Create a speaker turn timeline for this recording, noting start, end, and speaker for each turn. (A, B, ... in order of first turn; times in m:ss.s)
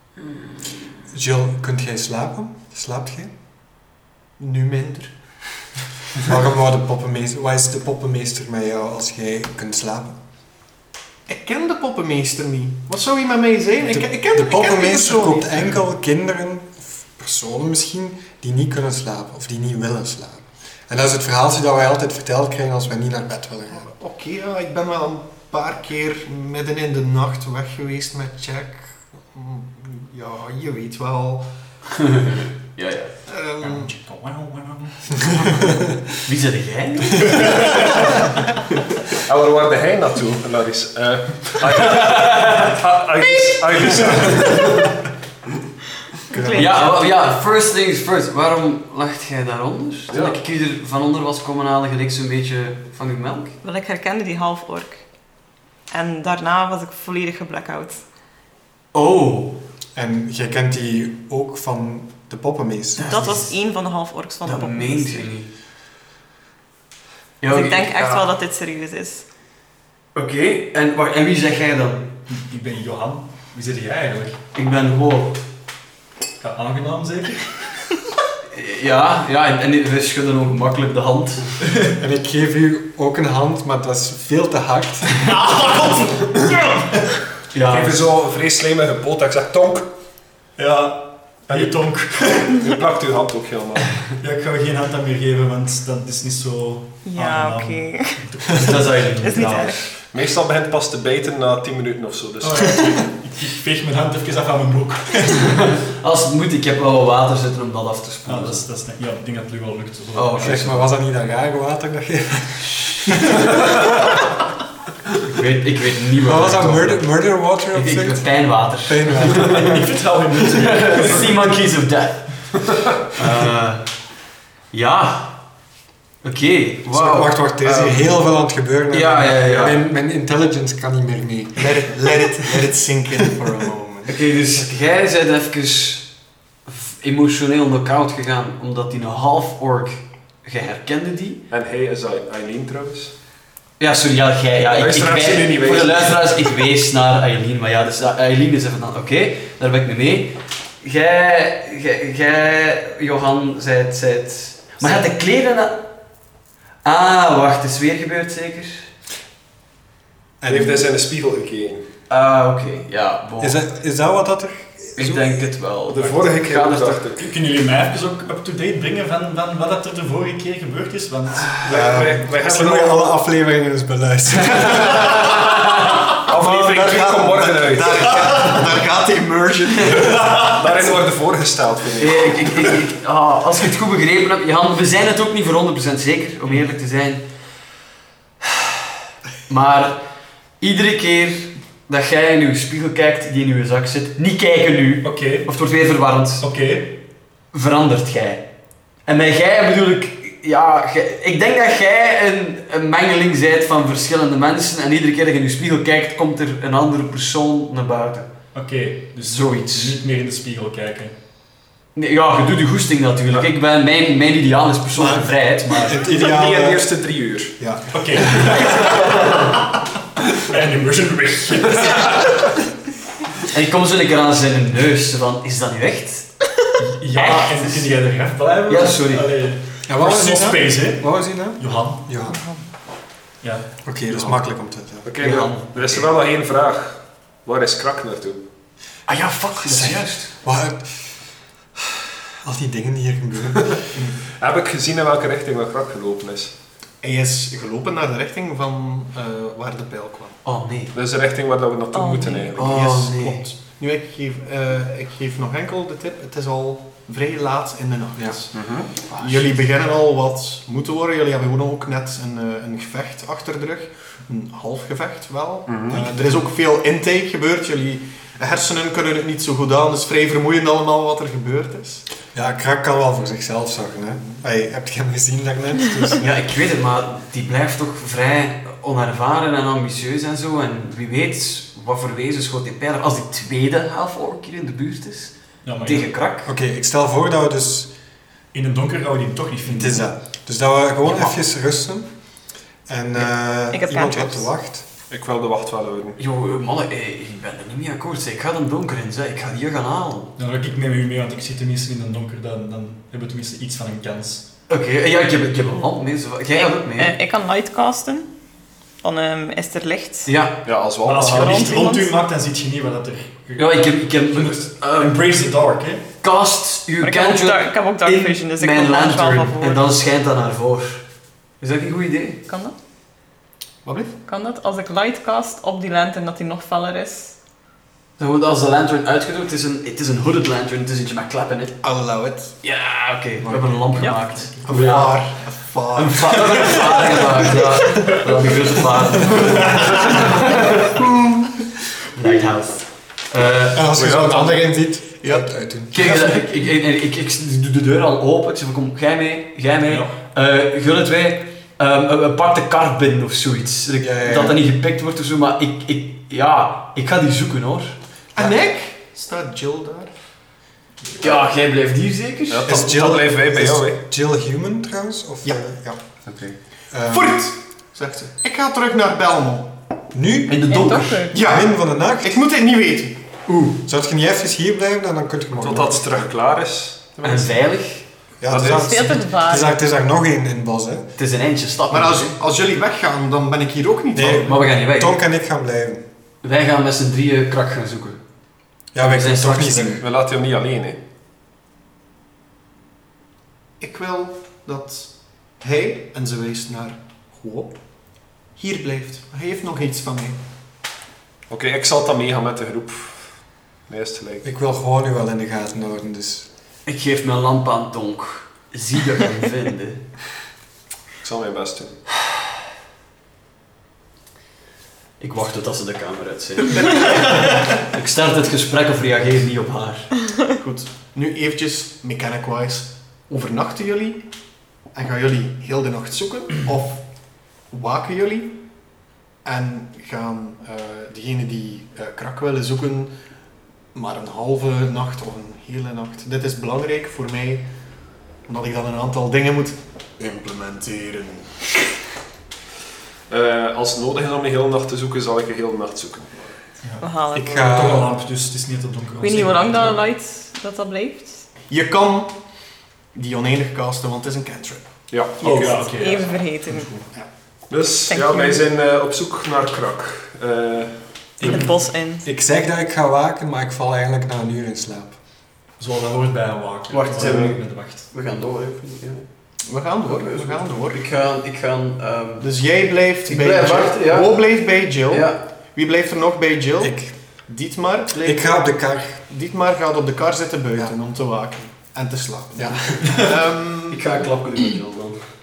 0:01.1-0:03.3 A
0:04.4-0:05.1 B
0:06.2-0:10.2 A
0:11.3-0:15.7 B
0:13.8-0:23.9 A
0:23.7-0:31.5 B
0:32.0-0:33.1 C
0:33.3-0:33.9 B
0:33.6-0:35.7 D
0:36.2-0:38.1 C
0:37.3-0:38.1 D
0:39.2-0:44.9 E
0:41.8-0:42.8 C
0:46.3-0:46.8 A
0:46.3-0:47.1 F
0:46.5-0:53.6 C
0:50.1-0:50.4 E
0:53.6-0:55.0 F
0:55.9-0:58.0 F
0:58.9-0:59.6 C
0:59.9-1:03.3 A
1:03.0-1:03.5 C
1:03.0-1:05.3 F
1:04.4-1:05.5 C
1:07.4-1:08.3 C
1:07.4-1:09.2 F
1:10.1-1:12.1 C
1:12.3-1:14.4 D
1:14.5-1:15.4 C
1:16.4-1:17.5 D
1:18.5-1:21.5 C
1:21.9-1:25.3 A
1:25.1-1:26.5 D
1:27.5-1:28.1 C
1:27.7-1:29.9 E
1:30.6-1:32.6 D
1:31.5-1:34.1 E
1:34.2-1:39.7 D
1:37.0-1:38.3 F
1:38.5-1:39.8 C
1:39.2-1:39.9 F
1:40.1-1:43.0 E
1:42.4-1:45.6 D
1:45.4-1:48.6 C
1:48.2-1:50.7 D
1:50.1-1:50.8 C
1:50.4-1:53.7 A
1:52.9-1:53.3 C
1:55.2-1:57.2 C
1:56.2-1:58.3 A
1:57.7-2:02.6 C
1:58.8-1:59.6 A
1:59.5-2:01.4 D
2:03.1-2:03.9 C
2:04.7-2:05.4 C
2:06.2-2:07.3 C
2:06.9-2:12.2 A
2:08.9-2:09.9 C
2:11.6-2:14.1 B
2:14.1-2:16.1 C
2:16.6-2:21.4 C
2:21.5-2:23.1 E
2:23.8-2:35.8 C
2:24.7-2:26.4 E
2:36.8-2:38.8 C
2:40.4-2:40.9 A
2:40.4-2:41.8 E
2:42.1-2:43.6 C
2:43.4-2:45.2 A
2:45.0-2:47.1 C
2:45.9-2:47.2 E
2:47.2-2:51.8 D
2:51.6-2:53.2 E
2:51.7-2:55.1 A
2:56.2-2:58.3 E
2:56.3-3:00.6 B
3:00.0-3:00.5 D
3:00.4-3:02.8 E
3:02.0-3:07.2 C
3:09.5-3:10.0 C
3:10.6-3:16.4 C
3:15.0-3:15.5 D
3:16.4-3:17.0 D
3:17.5-3:18.5 C
3:19.0-3:28.3 C
3:28.5-3:31.1 D
3:29.2-3:30.0 C
3:31.9-3:36.0 C
3:35.0-3:36.9 A
3:35.6-3:36.0 D
3:36.0-3:37.6 E
3:37.6-3:38.6 A
3:37.9-3:39.3 D
3:38.4-3:39.5 C
3:40.4-3:42.4 D
3:43.5-3:46.4 C
3:46.8-3:52.1 D
3:47.1-3:47.9 C
3:48.7-3:49.3 C
3:49.9-3:52.4 A
3:52.3-3:52.6 F
3:53.4-3:54.3 D
3:53.8-3:55.1 A
3:55.0-3:58.4 E
3:55.2-3:56.1 C
3:59.1-4:00.3 C
3:59.6-4:01.0 A
4:02.4-4:03.8 A
4:04.3-4:06.5 E
4:07.0-4:10.4 B
4:10.4-4:10.9 C
4:10.9-4:12.7 E
4:11.9-4:12.6 F
4:12.6-4:13.4 C
4:12.6-4:32.0 B
4:18.5-4:18.9 E
4:19.1-4:19.5 C
4:25.7-4:26.0 E
4:32.3-4:36.3 A
4:36.2-4:46.5 C
4:45.6-4:46.1 D
4:46.4-4:47.9 A
4:48.5-4:50.1 D
4:49.6-4:52.1 A
4:51.0-4:51.3 C
4:52.9-4:54.8 A
4:53.7-4:54.5 F
4:55.1-4:56.2 E
4:56.2-5:00.3 C
5:00.4-5:04.5 D
5:04.7-5:07.1 C
5:06.5-5:08.3 F
5:09.0-5:10.3 F
5:10.2-5:10.6 C
5:10.6-5:11.8 E
5:11.0-5:16.0 D
5:11.3-5:12.1 F
5:13.6-5:15.2 C
5:16.2-5:21.0 C
5:17.0-5:19.9 F
5:21.6-5:22.4 C
5:22.5-5:22.7 F
5:23.8-5:24.1 B
5:24.2-5:27.4 F
5:28.2-5:31.8 C
5:31.8-5:32.5 B
5:32.6-5:35.2 C
5:34.6-5:36.8 B
5:35.9-5:41.0 C
5:39.3-5:39.8 B
5:41.0-5:41.5 B
5:42.1-5:44.0 C
5:43.7-5:46.4 A
5:43.8-5:45.4 B
5:45.9-5:58.0 C
5:49.9-5:50.1 D
5:54.0-5:54.6 A
5:58.3-6:00.1 B
6:01.2-6:02.9 C
6:02.5-6:04.0 E
6:02.6-6:06.0 A
6:05.4-6:06.0 B
6:06.3-6:06.5 E
6:06.9-6:07.4 A
6:07.0-6:09.7 B
6:10.1-6:10.7 A
6:10.5-6:11.3 C
6:10.7-6:11.4 F
6:11.3-6:13.2 B
6:11.4-6:12.4 A
6:13.6-6:16.2 A
6:15.6-6:17.6 E
6:17.2-6:18.0 C
6:18.4-6:21.1 A
6:18.5-6:19.0 E
6:18.6-6:19.8 F
6:21.2-6:22.3 C
6:21.9-6:24.6 B
6:24.1-6:26.0 A
6:24.4-6:25.2 C
6:26.4-6:28.2 C
6:28.9-6:30.0 A
6:29.0-6:30.0 C
6:30.0-6:31.0 E
6:33.8-6:37.8 B
6:38.5-6:40.4 B
6:41.5-6:43.4 E
6:43.9-6:44.4 E
6:44.4-6:46.5 A
6:46.8-6:50.0 C
6:51.2-6:52.0 E
6:55.2-7:00.1 C
7:00.6-7:04.2 B
7:04.9-7:07.0 B
7:07.7-7:08.5 B
7:09.4-7:13.1 B
7:13.9-7:17.6 B
7:18.4-7:21.9 B
7:23.3-7:26.6 E
7:26.8-7:27.1 D
7:27.0-7:27.9 F
7:27.3-7:28.1 A
7:27.6-7:30.0 D
7:29.2-7:31.4 F
7:31.7-7:32.4 B
7:33.1-7:34.9 B
7:35.1-7:35.8 E
7:35.4-7:35.9 B
7:35.4-7:37.1 D
7:35.8-7:36.9 F
7:37.7-7:41.0 E
7:38.1-7:38.6 F
7:41.4-7:45.2 A
7:41.4-7:42.2 F
7:45.8-7:48.1 D
7:46.9-7:49.2 C
7:47.2-7:47.5 E
7:49.6-7:51.0 B
7:50.0-7:52.5 C
7:52.4-7:58.7 B
7:53.2-7:54.5 C
7:55.1-7:55.4 C
7:56.8-7:57.1 A
7:58.2-7:59.2 A
7:59.2-8:04.0 B
8:03.0-8:03.3 D
8:03.9-8:05.2 C